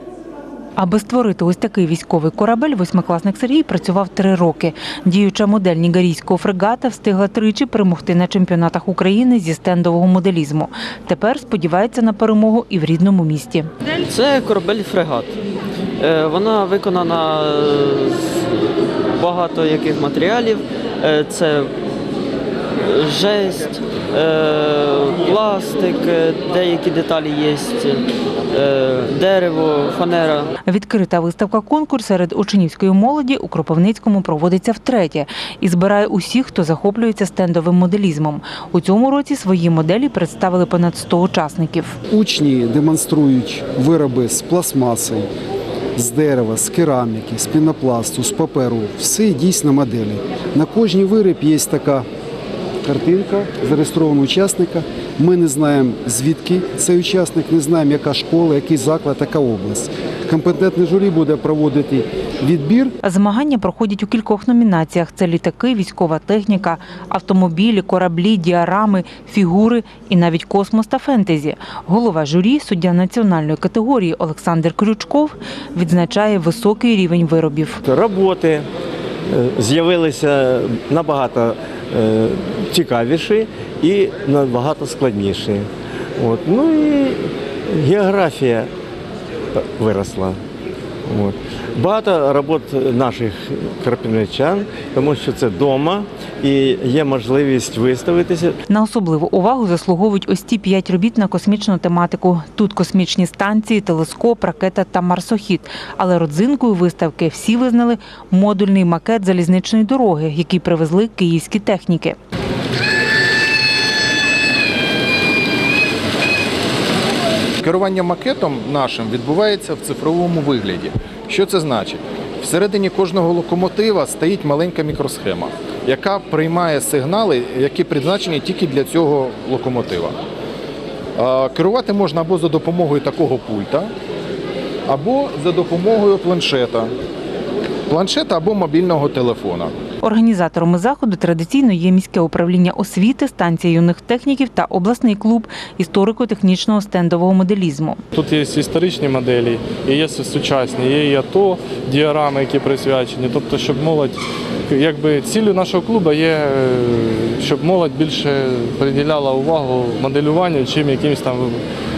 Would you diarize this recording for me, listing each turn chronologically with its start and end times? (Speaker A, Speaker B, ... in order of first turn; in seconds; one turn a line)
Speaker A: 0.8-13.7
Speaker B: 14.0-15.3
Speaker B: 16.0-18.2
Speaker B: 19.1-21.7
Speaker B: 22.9-30.5
Speaker A: 30.6-42.0
Speaker C: 42.1-45.3
Speaker C: 46.0-52.0
Speaker C: 52.8-62.9
Speaker A: 63.0-77.8
Speaker D: 77.8-78.7
Speaker D: 79.3-88.7
Speaker D: 89.5-90.4
Speaker D: 91.1-98.6
Speaker A: 98.7-112.2
Speaker E: 117.6-130.2
Speaker E: 131.2-133.9
Speaker E: 134.9-136.9
Speaker E: 137.9-139.7
Speaker A: 140.0-148.0
Speaker F: 148.2-154.2
Speaker F: 154.7-161.6